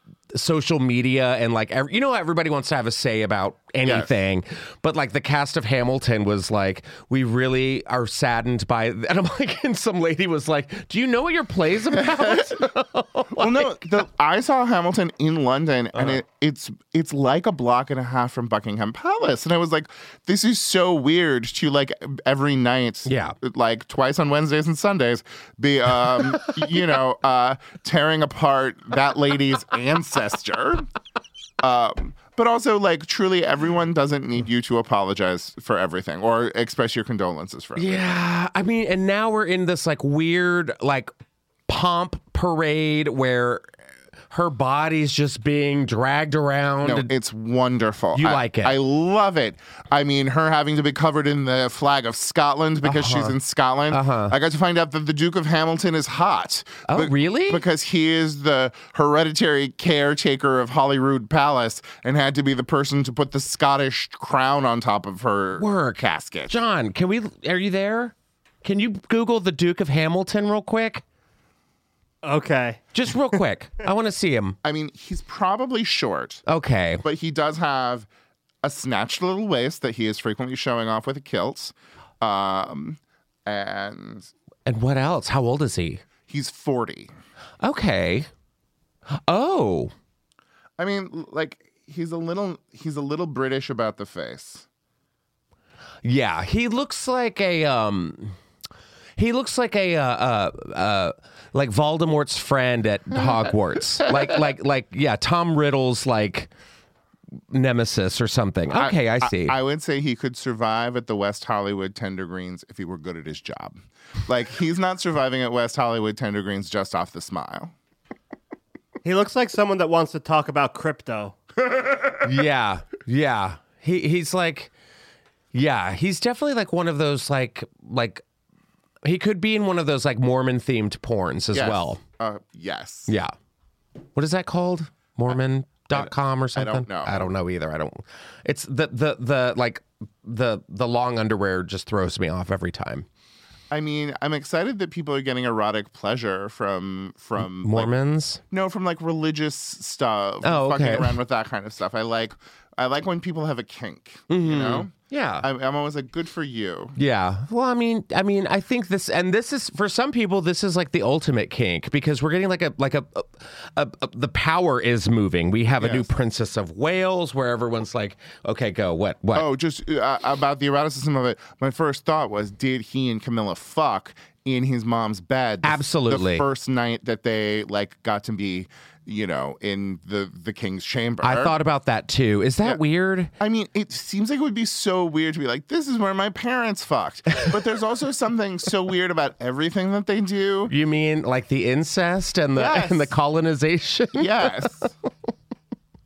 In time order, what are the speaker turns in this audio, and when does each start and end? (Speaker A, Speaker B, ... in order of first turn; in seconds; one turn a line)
Speaker A: 0.3-13.7
Speaker B: 3.8-4.1
Speaker B: 11.9-12.7
Speaker B: 13.3-30.9
Speaker A: 23.1-23.4
Speaker B: 31.6-38.1
Speaker A: 37.8-41.1
Speaker A: 41.7-43.7
Speaker A: 44.3-47.1
Speaker B: 46.8-66.6
Speaker A: 48.1-48.8
Speaker A: 52.8-53.4
Speaker A: 53.9-54.4
Speaker A: 56.9-57.6
Speaker A: 65.6-71.0
Speaker C: 72.2-73.0
Speaker A: 72.9-74.6
Speaker B: 74.6-76.4
Speaker A: 76.5-77.0
Speaker B: 77.0-78.1
Speaker B: 78.6-84.3
Speaker A: 84.7-86.0
Speaker B: 86.3-87.1
Speaker A: 87.6-88.3
Speaker A: 89.3-89.9
Speaker B: 90.8-94.7
Speaker A: 96.0-98.4
Speaker A: 99.2-106.5
Speaker A: 107.5-109.6
Speaker B: 108.8-117.7
Speaker C: 119.0-121.6
Speaker A: 122.2-124.7
Speaker A: 125.5-128.2
Speaker A: 129.0-132.0
Speaker B: 131.5-133.1
Speaker A: 133.1-133.3
Speaker A: 134.2-143.1
Speaker B: 135.9-137.3
Speaker B: 143.7-147.9
Speaker A: 147.6-148.4
Speaker B: 148.5-157.0
Speaker A: 150.4-151.2
Speaker A: 154.3-155.5
Speaker A: 157.0-169.5
Speaker B: 165.8-166.1
Speaker B: 169.3-181.6
Speaker A: 175.6-176.5
Speaker A: 181.2-183.3
Speaker B: 183.4-190.7
Speaker A: 190.7-194.9
Speaker B: 192.6-193.1
Speaker B: 194.1-194.9